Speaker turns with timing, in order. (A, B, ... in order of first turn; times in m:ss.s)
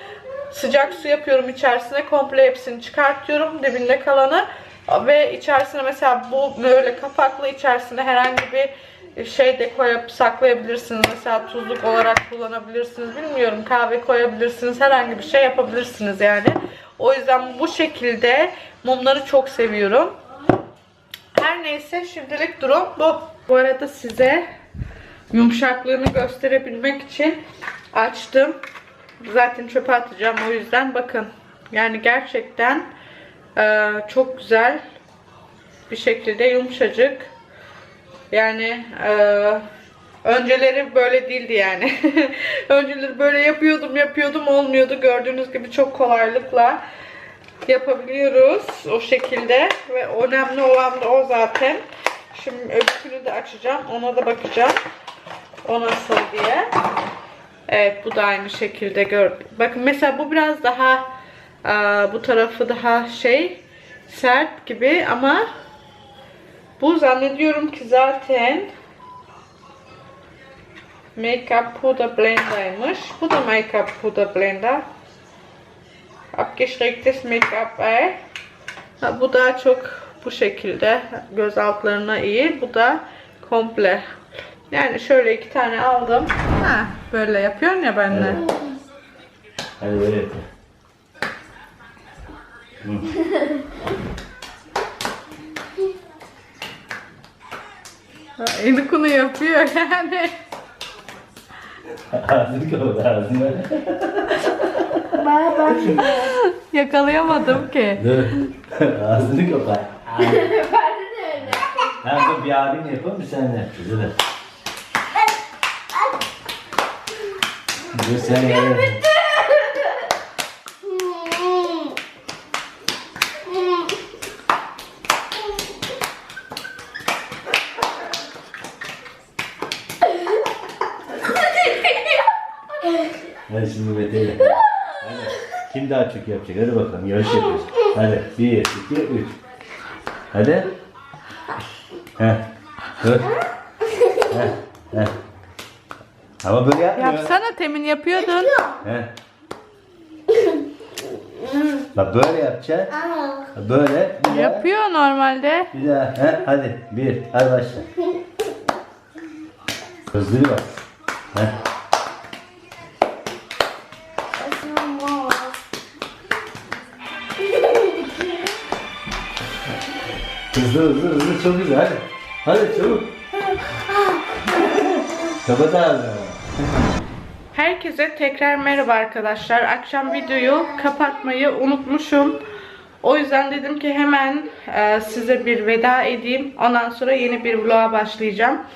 0:00.5-0:20.2 A
0:21.3-0:24.4 A
0:25.3-0:27.4 A
0:27.9-0:28.6 A
0:29.2-0:32.8 A
0:33.6-0:34.8 A
0:35.9-0:37.3 A
0:38.3-0:39.6 A
0:40.2-0:46.8 A
0:47.6-0:51.8 A
0:52.3-0:54.8 A
0:55.6-0:56.7 A
0:57.7-1:01.1 A
1:01.6-1:05.4 A
1:06.8-1:08.7 A
1:11.2-1:14.8 A
1:16.3-1:18.2 A
1:19.0-1:24.0 A
1:24.7-1:28.4 A
1:28.1-1:28.4 B
1:29.8-1:30.4 B
1:32.8-1:33.1 B
1:38.4-1:40.4 A
1:42.1-1:45.1 B
1:45.2-1:46.3 C
1:45.7-1:46.1 B
1:45.9-1:48.1 A
1:47.4-1:50.5 B
1:50.2-1:51.9 C
1:51.4-1:54.2 B
1:57.9-1:59.0 B
2:13.5-2:19.4 B
2:20.3-2:20.7 B
2:22.2-2:22.4 B
2:23.0-2:23.3 B
2:24.3-2:25.1 B
2:26.4-2:27.3 B
2:27.0-2:28.6 A
2:28.8-2:29.1 B
2:31.9-2:32.9 B
2:33.0-2:33.5 C
2:33.5-2:34.6 B
2:34.3-2:35.7 A
2:35.7-2:37.9 B
2:40.1-2:40.8 B
2:44.4-2:45.5 C
2:50.5-2:53.1 B
2:54.7-2:56.5 B
2:57.5-3:02.4 A
3:03.0-3:08.6 A